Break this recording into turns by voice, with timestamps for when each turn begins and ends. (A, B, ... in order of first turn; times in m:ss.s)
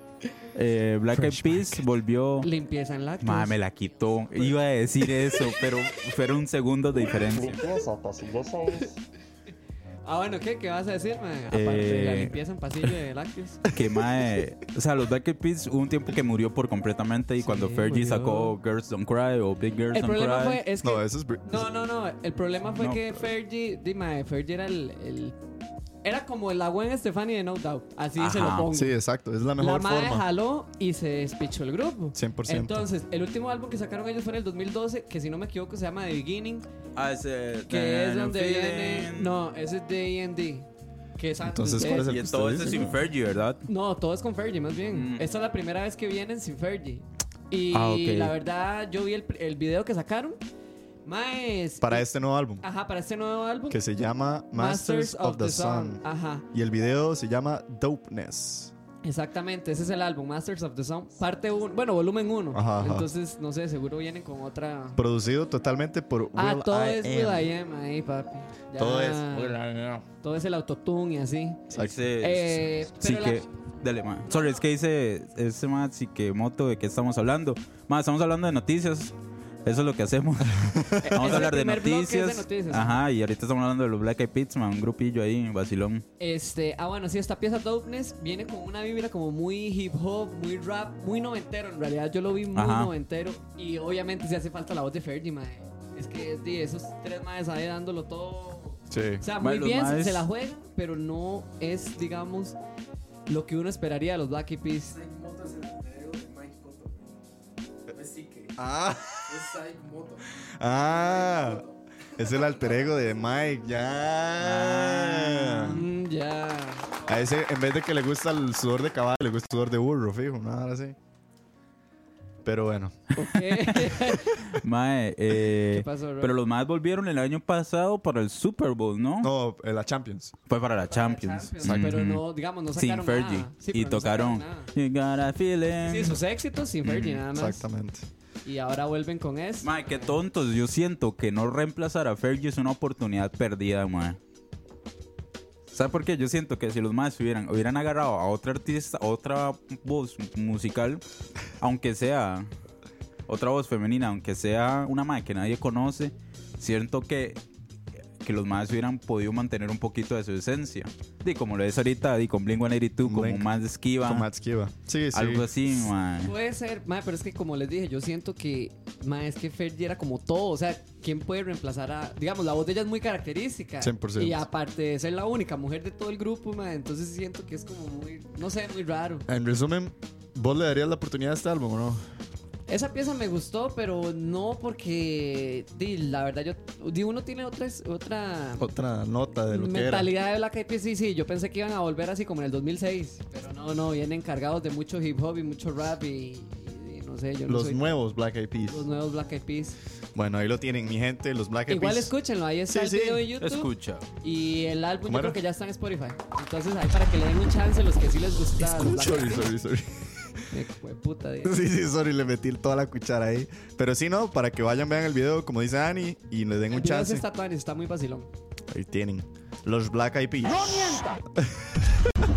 0:00.5-0:02.5 A
0:01.1-0:01.8 B
0:02.4-0:03.6 C
0:03.2-0:07.7 A
0:07.6-0:08.6 B
0:10.0-0:13.6 C
0:11.5-0:12.3 A
0:13.7-0:20.6 A
0:17.4-0:18.5 C
0:19.9-0:25.4 C
0:20.8-0:21.7 B
0:22.8-0:23.3 A
0:26.0-0:28.9 C
0:28.2-0:28.7 A
0:28.7-0:30.2 B
0:29.6-0:36.7 C
0:32.1-0:32.9 B
0:37.0-0:39.3 A
0:37.7-0:42.1 C
0:41.4-0:43.0 B
0:42.0-0:43.6 A
0:43.7-0:50.4 C
0:44.9-0:45.2 A
0:47.7-0:48.3 A
0:51.0-0:52.1 C
0:51.8-0:52.6 B
0:52.6-0:53.8 C
0:53.7-0:58.7 B
0:54.5-0:56.4 C
0:59.0-1:05.0 C
1:02.5-1:03.1 B
1:05.0-1:07.4 B
1:06.4-1:09.6 C
1:08.8-1:10.0 B
1:10.2-1:11.6 C
1:11.7-1:12.0 B
1:11.7-1:19.1 A
1:12.2-1:13.4 C
1:19.6-1:26.0 A
1:20.5-1:21.0 B
1:21.0-1:23.0 C
1:26.2-1:42.6 C
1:32.5-1:32.9 A
1:38.9-1:39.2 B
1:39.4-1:40.2 A
1:43.3-1:45.0 C
1:45.1-1:46.8 D
1:48.0-1:48.4 D
1:48.6-1:49.5 B
1:50.6-1:55.8 B
1:54.4-1:55.8 A
1:55.7-1:57.1 C
1:57.0-2:01.0 B
2:02.4-2:03.2 B
2:03.1-2:04.4 C
2:03.6-2:09.3 A
2:05.7-2:06.4 C
2:09.2-2:10.4 B
2:10.5-2:16.2 A
2:10.9-2:14.7 C
2:15.8-2:17.6 C
2:16.8-2:17.2 A
2:17.3-2:18.1 B
2:18.4-2:20.2 C
2:19.6-2:24.2 A
2:25.7-2:31.0 A
2:31.6-2:32.5 A
2:33.3-2:37.4 A
2:38.2-2:44.3 A
2:43.0-2:43.5 B
2:44.0-2:45.5 B
2:45.1-2:46.3 A
2:46.2-2:59.2 C
2:53.8-2:54.4 B
2:59.3-3:02.0 B
3:02.7-3:08.7 C
3:08.6-3:10.1 B
3:09.5-3:17.9 C
3:17.4-3:18.8 B
3:18.7-3:19.8 C
3:20.1-3:22.1 B
3:21.7-3:23.7 C
3:22.7-3:23.2 B
3:23.4-3:24.0 A
3:24.2-3:29.5 C
3:25.1-3:25.4 B
3:28.6-3:30.4 B
3:30.5-3:31.6 C
3:31.4-3:37.2 B
3:36.7-3:38.3 C
3:38.7-3:41.9 B